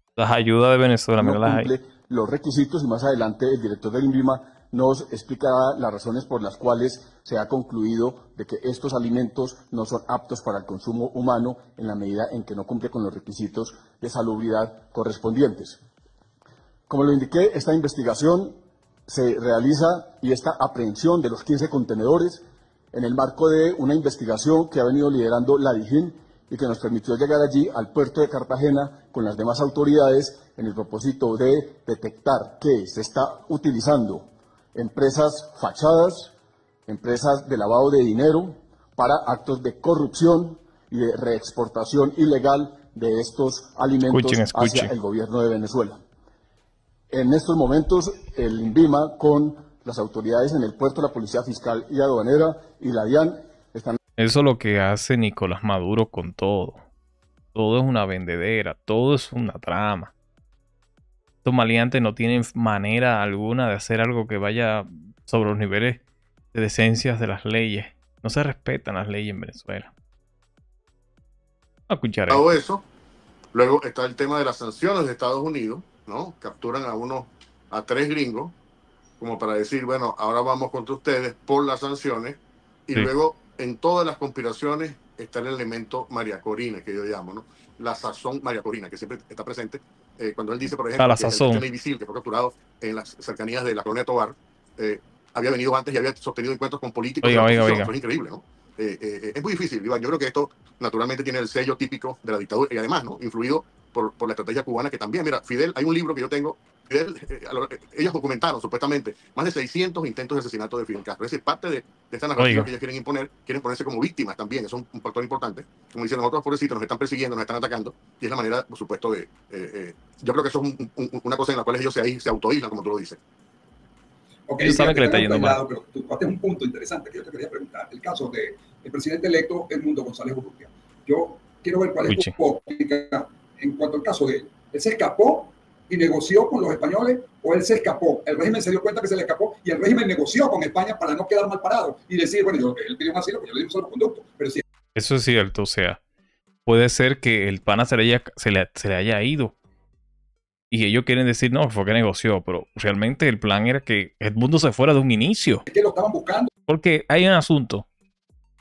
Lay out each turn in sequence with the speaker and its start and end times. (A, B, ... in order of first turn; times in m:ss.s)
0:00.2-0:01.7 A
0:01.2-0:15.8 B
0:16.9-0:18.5 B
0:19.1-0:22.4 B
0:22.9-0:36.3 B
0:36.9-0:46.0 B
0:44.1-0:44.9 A
0:47.1-0:54.0 B
0:54.2-0:56.8 A
0:57.5-1:00.1 A
1:01.4-1:06.0 A
1:06.5-1:09.9 A
1:11.9-1:12.6 A
1:12.3-1:12.8 C
1:13.5-1:18.6 C
1:19.2-2:03.2 C
1:31.0-1:31.6 A
1:37.2-1:37.9 A
1:52.4-1:52.7 A
2:04.5-2:24.6 D
2:04.6-2:05.6 A
2:25.0-2:26.0 A
2:26.7-2:29.5 A
2:30.7-2:35.6 A
2:35.7-2:36.5 D
2:36.7-2:37.9 A